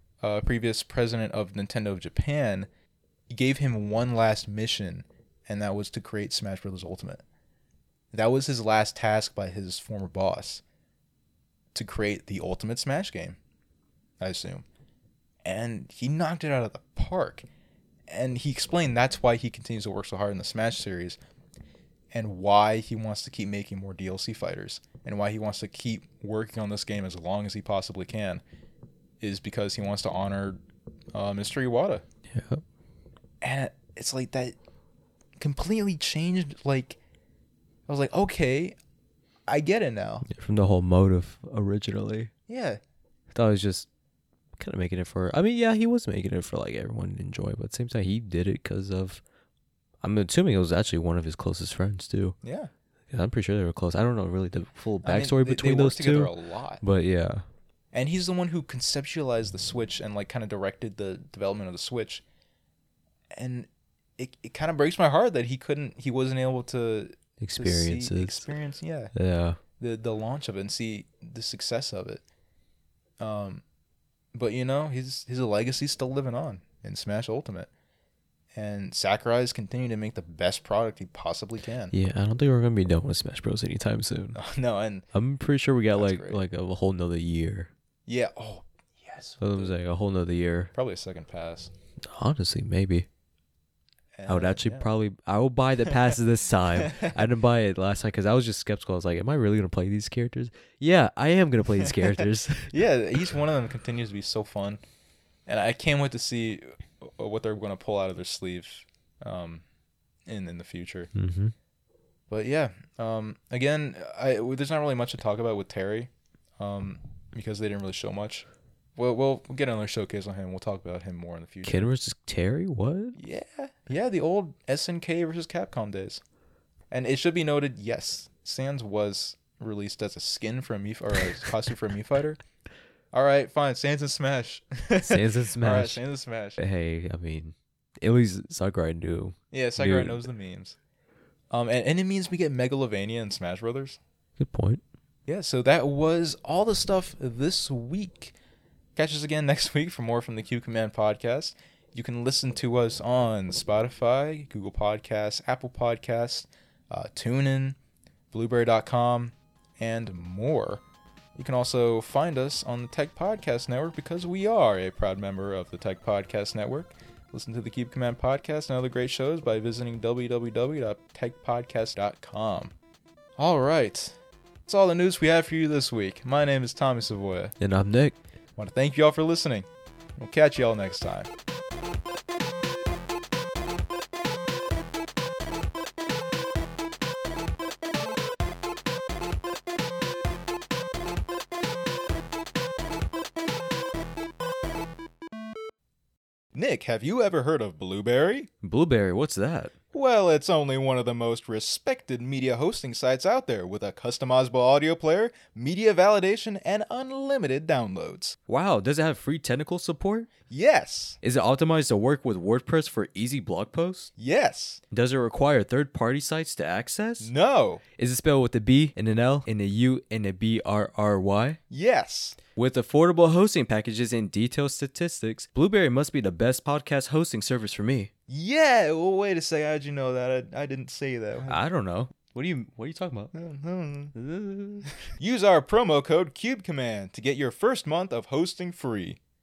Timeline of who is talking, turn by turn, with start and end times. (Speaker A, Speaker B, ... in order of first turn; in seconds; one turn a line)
Speaker A: 0.2-2.7
Speaker A: 3.3-7.2
Speaker A: 8.1-10.6
Speaker A: 11.7-13.4
Speaker A: 14.2-14.6
Speaker A: 15.4-17.5
Speaker A: 18.1-21.2
Speaker A: 22.1-28.4
Speaker A: 29.2-30.6
Speaker A: 31.1-32.0
Speaker B: 32.3-32.6
Speaker A: 33.4-34.5
Speaker A: 35.4-37.0
Speaker A: 37.9-38.8
Speaker A: 39.5-40.3
Speaker B: 40.2-42.3
Speaker A: 42.5-42.8
Speaker B: 43.3-43.9
Speaker B: 44.6-49.2
Speaker B: 50.0-52.4
Speaker A: 52.4-52.7
Speaker B: 53.1-57.5
Speaker A: 55.0-56.8
Speaker A: 57.9-62.2
Speaker A: 63.3-69.1
Speaker B: 67.4-68.5
Speaker B: 69.1-69.6
Speaker A: 69.8-72.2
Speaker A: 73.2-73.6
Speaker A: 74.3-77.7
Speaker A: 78.5-81.9
Speaker B: 81.9-84.4
Speaker A: 84.3-85.0
Speaker B: 85.1-87.7
Speaker A: 85.9-86.4
Speaker A: 88.1-89.7
Speaker B: 89.4-90.7
Speaker A: 90.7-91.7
Speaker B: 92.0-93.1
Speaker A: 94.2-94.9
Speaker B: 94.3-102.7
Speaker A: 96.8-97.1
Speaker A: 101.8-104.8
Speaker A: 105.5-109.6
Speaker A: 110.3-111.1
Speaker B: 111.1-111.5
Speaker A: 112.3-121.9
Speaker B: 121.6-123.2
Speaker A: 123.2-126.2
Speaker A: 126.9-132.4
Speaker A: 133.1-136.6
Speaker B: 135.0-136.0
Speaker B: 136.6-140.2
Speaker A: 139.5-140.8
Speaker A: 141.5-144.0
Speaker B: 144.4-144.8
Speaker A: 145.3-148.3
Speaker A: 148.9-157.8
Speaker A: 158.3-160.8
Speaker A: 161.3-172.7
Speaker A: 173.4-177.5
Speaker B: 177.6-178.2
Speaker A: 178.6-181.3
Speaker A: 196.5-198.5
Speaker B: 198.6-199.7
Speaker A: 199.9-208.4
Speaker B: 208.5-210.3
Speaker A: 210.5-211.2
Speaker B: 211.2-214.1
Speaker A: 214.2-214.8
Speaker B: 214.9-217.3
Speaker A: 217.2-217.8
Speaker B: 218.0-221.6
Speaker A: 221.7-222.4
Speaker B: 222.5-228.1
Speaker A: 228.3-231.6
Speaker B: 231.5-233.3
Speaker A: 233.3-234.1
Speaker B: 234.1-234.9
Speaker A: 235.1-239.2